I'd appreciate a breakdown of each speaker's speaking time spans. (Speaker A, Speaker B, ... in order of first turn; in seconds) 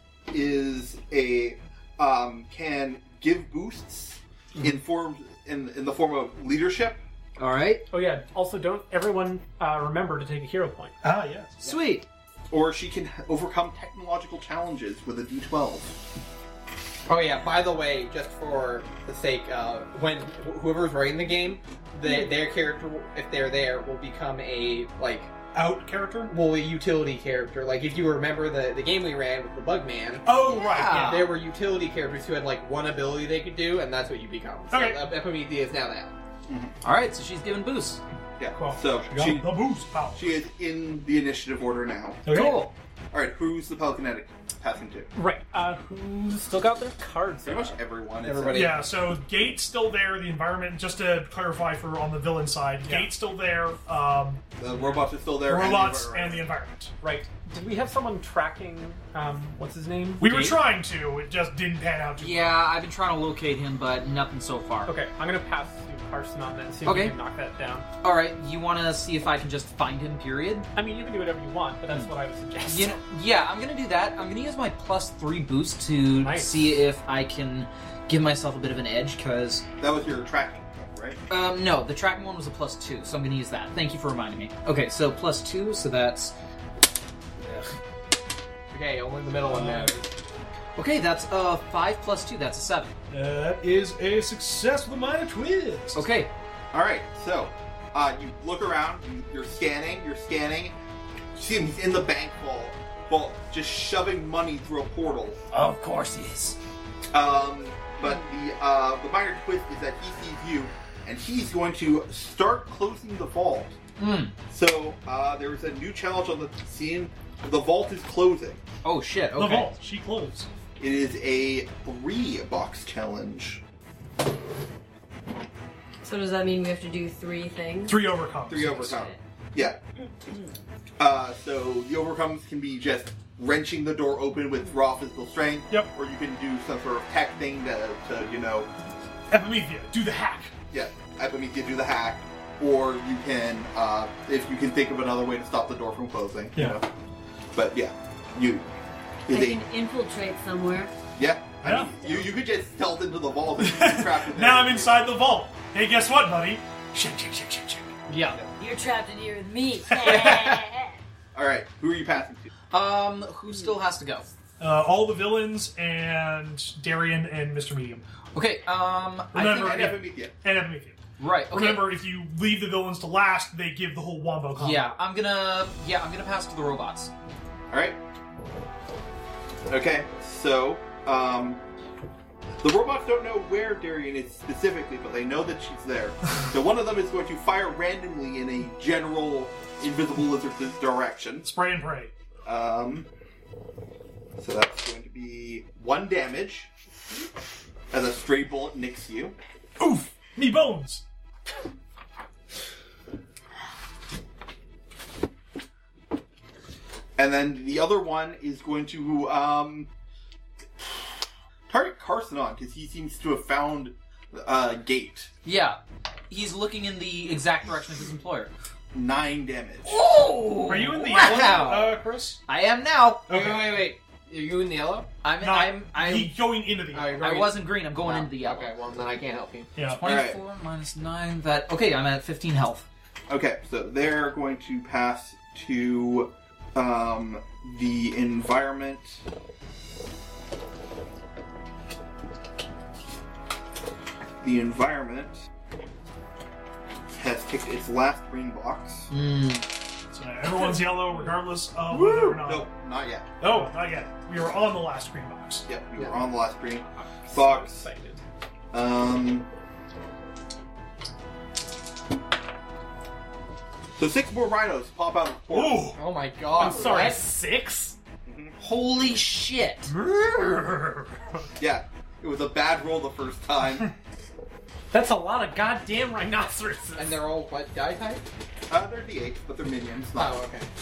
Speaker A: 0.3-7.0, 12.5-16.0, 36.5-36.7, 38.4-39.5, 40.1-42.3, 43.1-45.1, 47.4-48.7, 54.5-56.4, 79.8-81.2, 96.7-100.7, 101.3-105.4, 107.1-113.8, 114.5-118.6, 120.8-123.6, 128.5-129.8, 131.0-138.7, 140.7-146.9, 147.5-148.7, 149.2-149.6, 151.2-155.0, 160.0-160.6, 161.3-162.5, 169.6-170.3, 177.7-178.0, 179.7-181.6, 182.6-191.5, 192.4-193.1, 194.4-196.7, 197.9-199.4, 207.2-209.9, 211.7-215.3, 218.9-220.0, 230.0-230.4, 233.3-239.2, 244.4-245.5, 247.1-249.1, 252.4-253.4, 255.7-257.8, 258.7-259.5, 263.9-265.9, 268.2-268.6, 271.6-273.9, 278.7-280.4
Speaker B: 7.4-7.8, 11.6-12.0, 30.5-31.4, 36.8-38.0, 42.3-42.7, 62.2-64.9, 66.8-67.1, 68.0-70.7, 72.7-79.6, 81.3-86.3, 90.8-92.9, 95.9-96.3, 105.5-106.6, 114.0-114.3, 118.8-119.8, 158.1-158.4, 162.7-164.3, 168.3-169.9, 171.2-172.0, 174.5-177.1, 215.4-218.5, 219.8-223.9, 225.2-226.4, 227.1-228.7, 229.8-232.9, 249.1-249.7, 268.6-269.9
Speaker C: 7.9-11.0, 45.1-47.8, 52.8-53.1, 57.0-60.6, 64.8-67.9, 70.7-73.0, 76.2-76.8, 257.0-258.2, 266.6-267.9, 274.9-277.2
Speaker D: 11.0-11.8, 25.5-26.3, 30.2-31.3, 34.7-35.0, 38.5-40.4, 42.2-42.6, 48.5-54.4, 55.3-56.9, 60.2-62.6, 89.6-89.9, 93.1-96.0, 119.3-120.5, 127.9-129.1, 139.3-140.5, 146.6-146.8, 151.6-152.0, 153.6-157.9, 159.9-160.4, 164.6-168.0, 169.3-174.9, 191.4-192.1, 199.8-201.0, 220.7-222.4, 225.4-227.2, 229.8-230.0, 250.1-252.7, 253.4-255.7, 265.5-266.0, 269.9-271.1
Speaker E: 17.1-25.3, 26.3-36.1, 48.2-48.8, 88.7-90.1, 223.3-225.1, 226.9-229.7, 265.9-267.2, 277.0-278.2, 280.1-280.7
Speaker F: 126.0-128.1, 128.8-129.2, 149.3-150.9, 158.6-161.0, 163.5-163.8